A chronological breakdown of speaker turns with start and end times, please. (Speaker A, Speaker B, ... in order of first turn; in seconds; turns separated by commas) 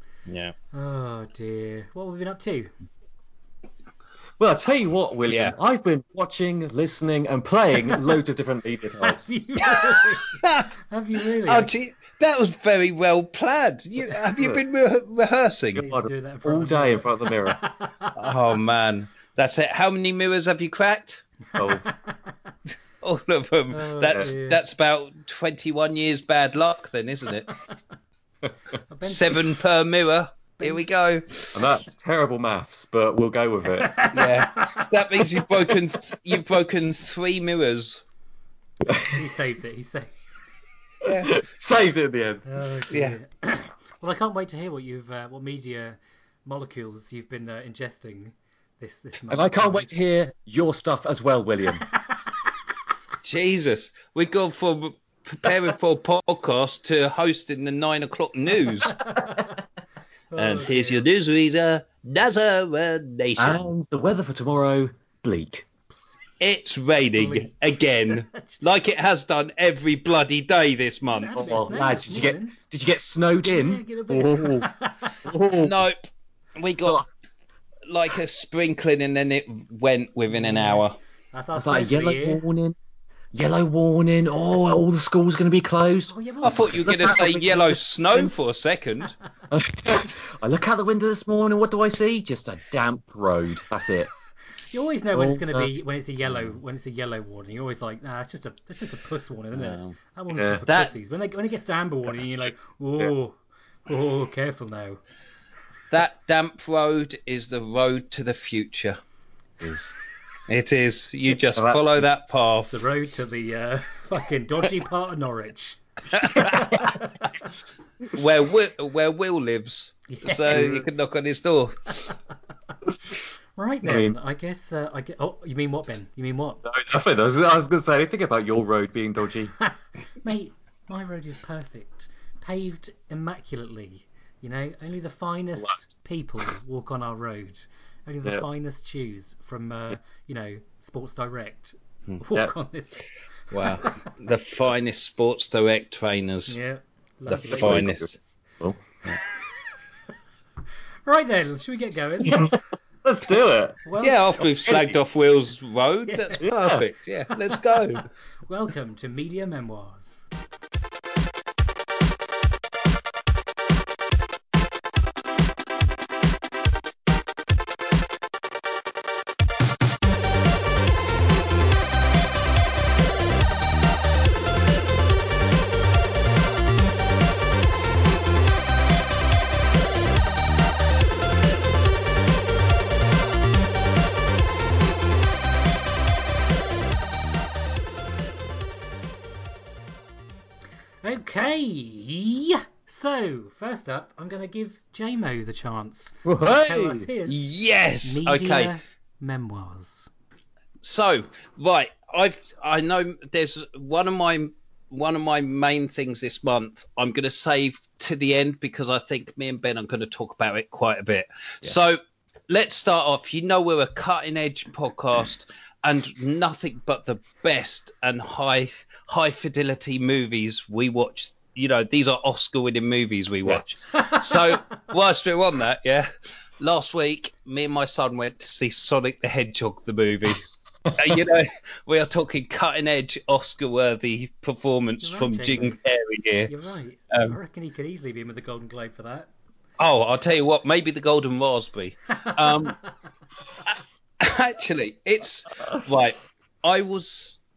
Speaker A: 0.3-0.5, Speaker B: 0.7-2.7, Speaker C: 4.4-9.2, Speaker A: 5.3-5.5, Speaker B: 9.0-11.7, Speaker A: 9.6-10.7, Speaker A: 11.4-15.8, Speaker C: 14.3-14.6, Speaker C: 15.7-17.6, Speaker B: 15.8-18.1, Speaker A: 18.2-21.2, Speaker C: 21.5-21.9, Speaker B: 21.6-22.5, Speaker A: 23.0-27.6, Speaker B: 23.7-24.6, Speaker C: 24.0-24.3, Speaker B: 28.9-29.5, Speaker A: 29.0-31.7, Speaker B: 30.6-30.9, Speaker C: 31.5-34.1, Speaker B: 33.8-35.7, Speaker A: 34.1-38.0, Speaker C: 38.9-39.2, Speaker B: 39.1-40.1, Speaker A: 41.0-41.3, Speaker C: 41.1-42.8, Speaker B: 42.5-49.9, Speaker A: 42.9-43.2, Speaker C: 49.3-51.9, Speaker A: 53.2-59.0, Speaker B: 59.0-59.5, Speaker B: 60.3-61.0, Speaker A: 60.3-63.6, Speaker C: 63.4-65.7, Speaker A: 66.4-71.7, Speaker B: 67.1-67.5, Speaker B: 68.1-68.5, Speaker B: 71.0-72.6, Speaker C: 71.3-74.7, Speaker B: 73.4-75.3, Speaker C: 75.2-75.7, Speaker A: 75.6-77.0, Speaker A: 77.9-81.0, Speaker B: 80.3-82.4, Speaker C: 81.5-82.8, Speaker C: 83.3-88.3, Speaker B: 86.1-87.4, Speaker A: 86.4-89.1, Speaker C: 89.5-94.1, Speaker B: 94.6-105.0, Speaker C: 95.1-95.7, Speaker C: 96.2-96.6, Speaker C: 100.3-100.6, Speaker A: 100.7-100.9, Speaker A: 105.9-109.0, Speaker C: 109.6-110.0, Speaker A: 110.5-112.8, Speaker C: 111.5-112.0, Speaker B: 112.7-117.1, Speaker A: 116.1-116.9, Speaker A: 118.1-122.1, Speaker B: 120.1-120.7, Speaker C: 120.5-120.9, Speaker B: 123.6-126.6, Speaker C: 123.8-124.2, Speaker C: 126.6-129.5, Speaker B: 129.6-143.1, Speaker A: 143.5-146.6, Speaker B: 143.8-144.1, Speaker B: 146.5-147.9, Speaker C: 147.2-148.8, Speaker A: 147.3-148.2, Speaker B: 151.0-152.6, Speaker C: 152.2-153.8, Speaker B: 153.8-154.2, Speaker A: 154.0-158.0, Speaker C: 154.7-154.9, Speaker B: 156.1-156.5, Speaker C: 156.4-156.9, Speaker B: 157.9-160.3, Speaker B: 191.0-197.5, Speaker C: 196.2-197.1, Speaker A: 197.3-198.7, Speaker B: 198.0-200.1, Speaker A: 200.8-226.1, Speaker C: 223.4-223.9, Speaker A: 226.6-236.5, Speaker C: 230.8-231.2, Speaker B: 235.0-235.8, Speaker B: 236.5-239.3, Speaker A: 237.1-237.4, Speaker A: 239.8-242.9, Speaker A: 243.7-247.4, Speaker C: 245.6-245.8